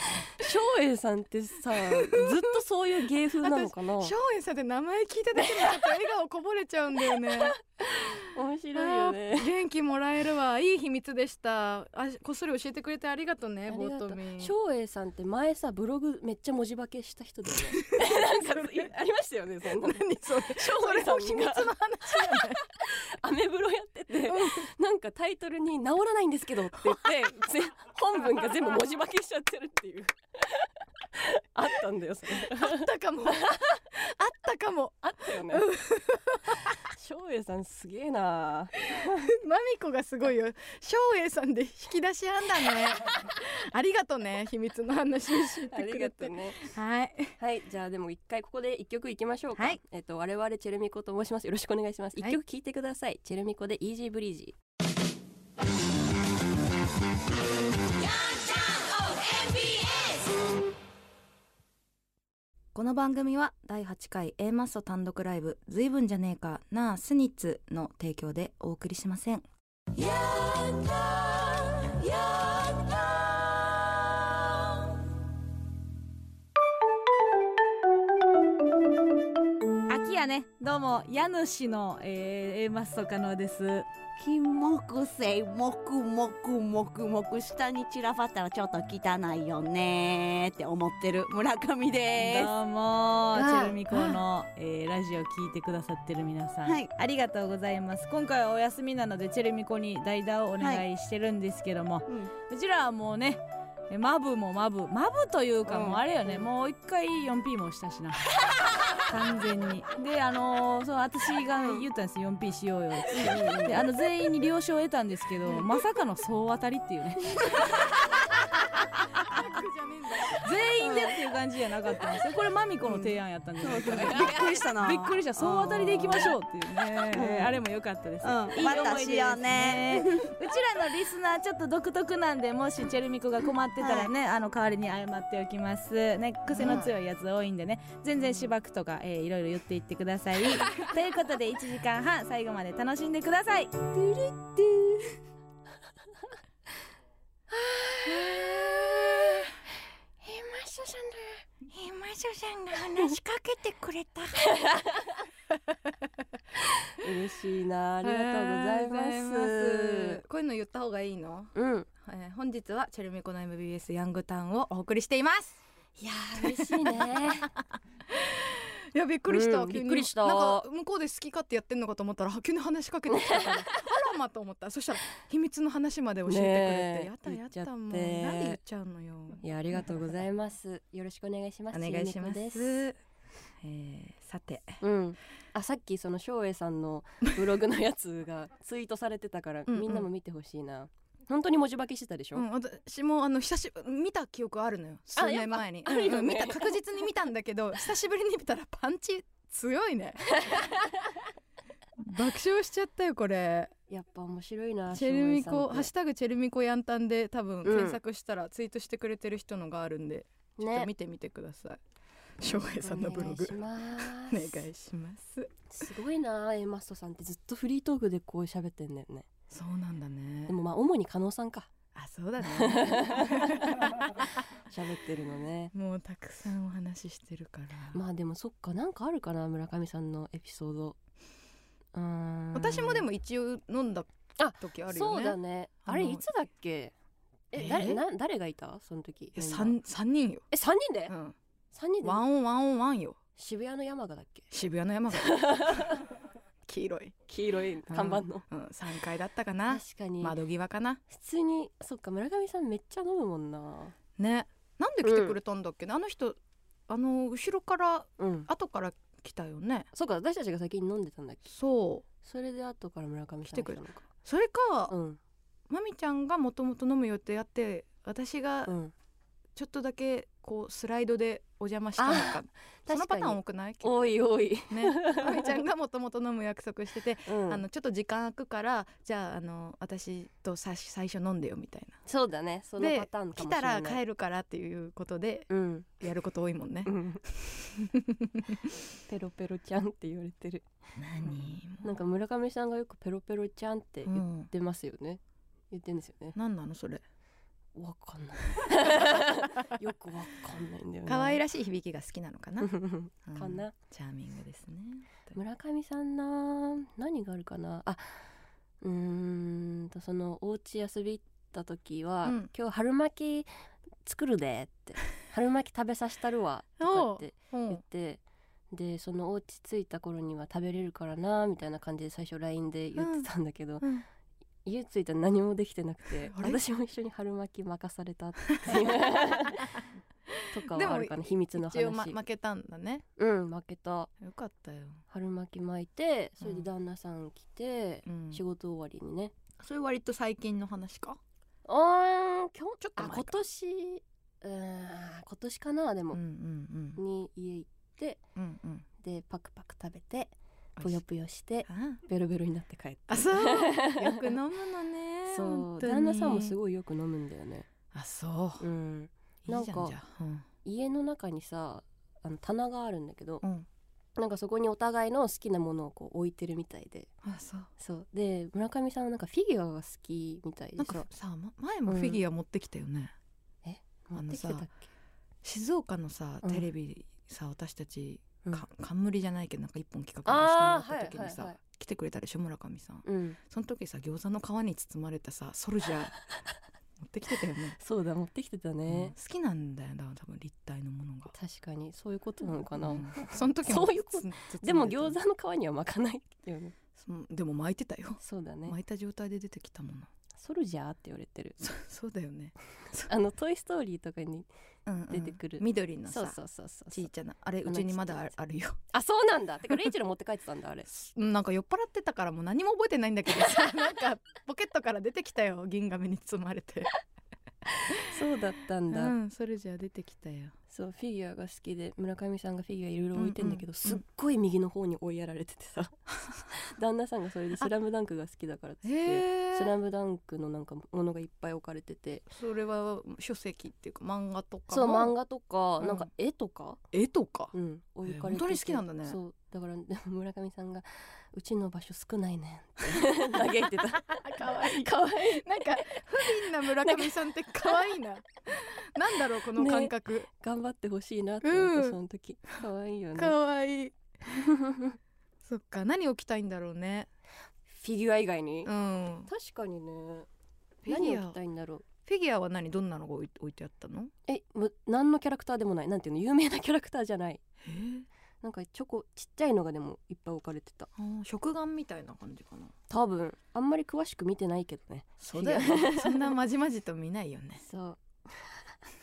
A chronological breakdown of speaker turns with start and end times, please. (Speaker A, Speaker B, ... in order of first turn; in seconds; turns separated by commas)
Speaker A: 0.1-4.1, Speaker B: 1.8-2.6, Speaker B: 3.4-14.5, Speaker A: 5.3-6.0, Speaker A: 7.0-9.5, Speaker A: 13.7-33.8, Speaker B: 17.8-18.9, Speaker B: 19.7-22.6, Speaker B: 24.3-24.7, Speaker B: 32.4-36.8, Speaker A: 35.0-35.7, Speaker A: 36.8-39.3, Speaker B: 38.9-47.4, Speaker A: 45.7-46.6, Speaker A: 47.4-54.5, Speaker B: 62.7-69.4, Speaker C: 79.9-83.8, Speaker D: 84.2-92.5, Speaker C: 92.2-108.2, Speaker A: 93.4-93.7, Speaker B: 93.9-94.2, Speaker D: 100.6-100.8, Speaker D: 105.7-106.0, Speaker C: 109.0-117.7, Speaker D: 113.1-113.8, Speaker B: 119.1-120.4, Speaker C: 120.4-143.9, Speaker D: 120.8-121.1, Speaker D: 122.9-126.3, Speaker A: 124.1-124.6, Speaker D: 127.1-127.5, Speaker D: 128.2-130.2, Speaker D: 133.8-134.1, Speaker A: 136.6-136.9, Speaker A: 143.9-145.2, Speaker A: 147.5-149.5, Speaker A: 150.2-151.4, Speaker B: 151.7-154.5, Speaker A: 154.4-155.2, Speaker A: 156.9-160.2, Speaker B: 158.0-165.6, Speaker A: 161.5-161.9, Speaker A: 166.0-167.5, Speaker B: 166.4-167.3, Speaker B: 168.1-179.8, Speaker A: 169.3-170.7, Speaker A: 173.1-173.9, Speaker A: 176.2-178.6, Speaker A: 179.4-182.8, Speaker B: 181.7-183.0, Speaker B: 183.6-184.8, Speaker A: 184.8-192.4, Speaker B: 189.7-190.1, Speaker B: 192.3-200.6, Speaker A: 195.2-196.8, Speaker A: 200.4-201.2, Speaker B: 202.0-203.7, Speaker A: 203.9-205.9, Speaker B: 204.9-211.8, Speaker A: 207.6-208.0, Speaker A: 210.6-210.9, Speaker B: 212.4-215.5, Speaker A: 212.8-214.6, Speaker A: 215.7-219.3, Speaker B: 219.5-220.5, Speaker A: 220.5-221.7, Speaker B: 221.9-224.1, Speaker A: 222.4-223.7, Speaker A: 224.7-225.7, Speaker B: 225.7-228.0, Speaker A: 227.9-231.0, Speaker A: 231.9-233.0, Speaker B: 232.5-236.2, Speaker A: 234.4-236.9, Speaker A: 237.5-239.8, Speaker B: 237.5-238.0, Speaker B: 239.3-240.5, Speaker A: 240.5-241.1, Speaker B: 241.1-241.3, Speaker A: 241.7-242.2, Speaker B: 242.0-243.2, Speaker A: 243.4-244.5, Speaker B: 244.5-246.0, Speaker A: 245.1-246.0, Speaker B: 246.7-247.2, Speaker A: 247.3-248.4, Speaker B: 247.9-251.0, Speaker A: 249.7-250.4, Speaker A: 251.1-253.9, Speaker B: 254.2-256.4, Speaker A: 255.0-255.3, Speaker B: 256.9-259.9, Speaker A: 258.2-258.5, Speaker A: 259.9-261.5, Speaker B: 261.5-262.1, Speaker A: 262.2-264.1, Speaker B: 263.4-264.9, Speaker A: 264.9-265.2, Speaker B: 265.7-268.8, Speaker A: 268.6-268.9, Speaker B: 269.6-273.9, Speaker A: 272.0-275.5, Speaker B: 274.7-282.0, Speaker A: 277.2-277.6, Speaker A: 282.1-284.0, Speaker B: 282.8-288.6, Speaker A: 285.5-285.9, Speaker A: 286.9-287.2, Speaker A: 289.1-290.6, Speaker B: 291.0-291.9, Speaker A: 291.8-296.4, Speaker B: 294.1-294.5, Speaker B: 296.3-297.0, Speaker A: 297.7-301.4, Speaker B: 301.1-305.4, Speaker A: 302.6-303.7, Speaker A: 305.3-308.2, Speaker A: 308.8-313.5, Speaker B: 312.2-312.5, Speaker A: 314.0-323.9, Speaker B: 316.8-317.8, Speaker B: 323.0-323.3, Speaker A: 324.6-329.7, Speaker B: 326.3-326.6, Speaker B: 328.5-329.8, Speaker B: 330.4-333.0, Speaker A: 330.5-332.2, Speaker A: 333.2-334.1, Speaker B: 334.2-335.0, Speaker A: 335.1-339.3, Speaker B: 336.4-336.7, Speaker B: 338.1-338.4, Speaker B: 339.6-341.2, Speaker A: 341.6-346.2, Speaker B: 342.8-343.4, Speaker B: 346.1-347.0, Speaker A: 346.9-348.2, Speaker B: 348.4-348.9, Speaker A: 349.0-354.3, Speaker B: 351.7-352.0, Speaker B: 353.1-356.5, Speaker A: 355.3-357.7, Speaker B: 357.9-358.7, Speaker A: 358.6-359.9, Speaker B: 359.4-360.4, Speaker A: 360.6-363.4, Speaker A: 364.1-367.1, Speaker B: 367.2-367.7, Speaker A: 367.8-371.1, Speaker B: 370.8-373.1, Speaker A: 371.9-372.2, Speaker A: 373.6-374.8, Speaker B: 374.1-374.6, Speaker B: 375.4-386.2, Speaker A: 380.2-381.6, Speaker A: 383.0-383.4, Speaker B: 387.0-387.8, Speaker A: 387.8-389.1, Speaker B: 388.9-391.3, Speaker A: 391.3-396.7, Speaker B: 392.7-395.2, Speaker B: 396.9-400.1, Speaker A: 398.2-398.8, Speaker A: 400.3-401.6, Speaker B: 401.6-403.1, Speaker A: 403.1-404.5, Speaker B: 404.9-406.4, Speaker A: 405.1-407.1, Speaker B: 406.9-408.8, Speaker A: 407.6-408.3, Speaker A: 408.9-410.9, Speaker B: 410.9-416.9, Speaker A: 417.7-419.1, Speaker B: 418.9-420.6, Speaker A: 420.7-432.2, Speaker B: 423.1-424.0, Speaker B: 428.8-429.7, Speaker B: 432.3-435.1, Speaker A: 434.7-436.8, Speaker B: 435.8-436.1, Speaker B: 436.9-437.5, Speaker A: 437.5-447.9, Speaker B: 438.0-439.2, Speaker B: 444.0-450.3, Speaker A: 449.5-453.4, Speaker B: 451.4-452.0, Speaker B: 453.1-453.9, Speaker A: 454.3-455.0, Speaker B: 455.4-457.1, Speaker A: 457.7-458.7, Speaker B: 458.6-459.3, Speaker A: 459.3-460.3, Speaker B: 460.8-461.4, Speaker A: 460.9-461.8, Speaker B: 462.1-464.1, Speaker A: 464.3-467.4, Speaker B: 467.6-468.1, Speaker A: 468.4-470.9, Speaker B: 471.0-472.7, Speaker A: 472.9-476.3, Speaker B: 475.2-477.6, Speaker A: 477.6-478.7